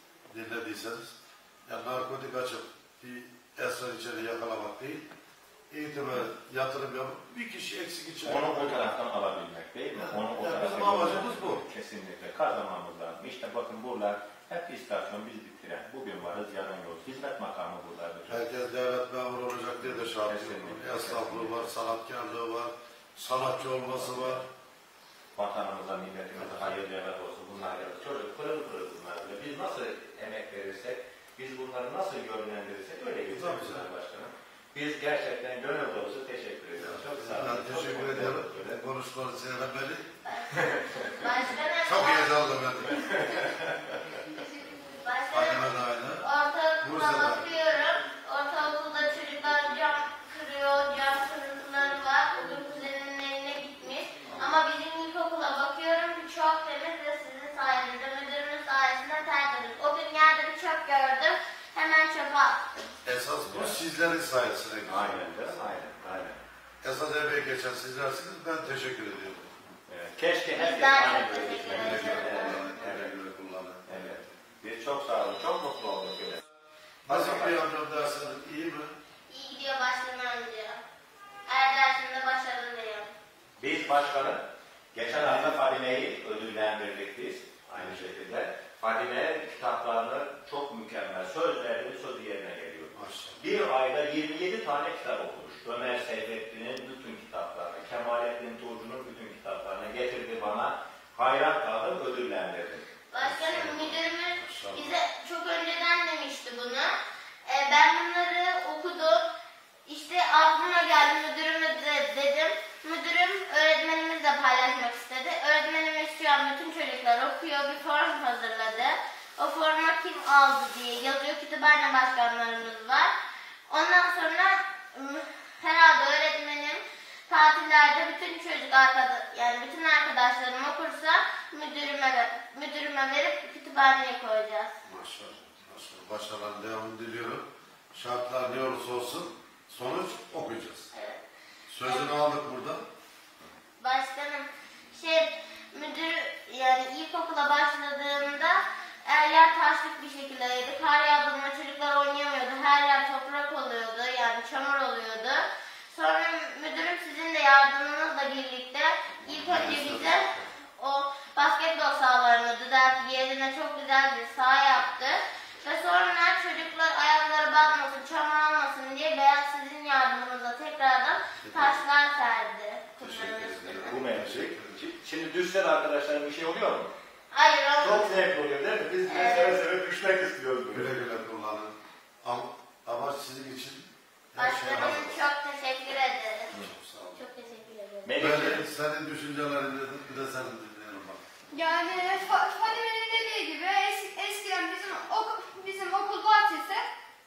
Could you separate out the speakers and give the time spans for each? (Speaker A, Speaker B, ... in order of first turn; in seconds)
Speaker A: 0.3-1.1, 1.6-5.1, 5.7-8.9, 9.9-11.6, 18.3-24.4, 33.3-33.9, 36.8-40.1, 41.8-43.1, 45.3-46.3, 46.8-47.6, 63.0-65.6, 66.8-69.5, 71.7-74.2, 77.1-78.9, 85.2-85.6, 92.9-93.4, 103.2-104.9, 134.8-140.9, 141.7-142.8, 159.3-160.2, 171.4-171.8, 173.0-174.8, 180.7-185.2, 186.5-187.2, 188.2-191.2
Speaker B: 8.2-18.4, 19.8-21.7, 23.8-24.4, 25.3-38.8, 40.5-41.2, 42.9-44.0, 63.5-63.8, 64.9-66.4, 69.9-73.1, 73.9-76.4, 77.0-77.6, 83.6-84.4, 84.9-102.9, 159.3-160.1, 173.7-176.9, 177.8-180.9, 188.0-188.6
Speaker C: 40.2-42.4, 45.0-62.9, 70.5-72.7, 79.3-80.8, 81.5-83.1, 103.1-106.9, 107.5-109.2, 109.8-123.1, 123.7-134.7, 140.9-141.2, 141.8-142.3, 143.8-174.1, 177.3-178.2, 179.1-179.6, 184.3-186.5, 187.1-188.1
Speaker D: 44.3-45.0, 191.5-196.9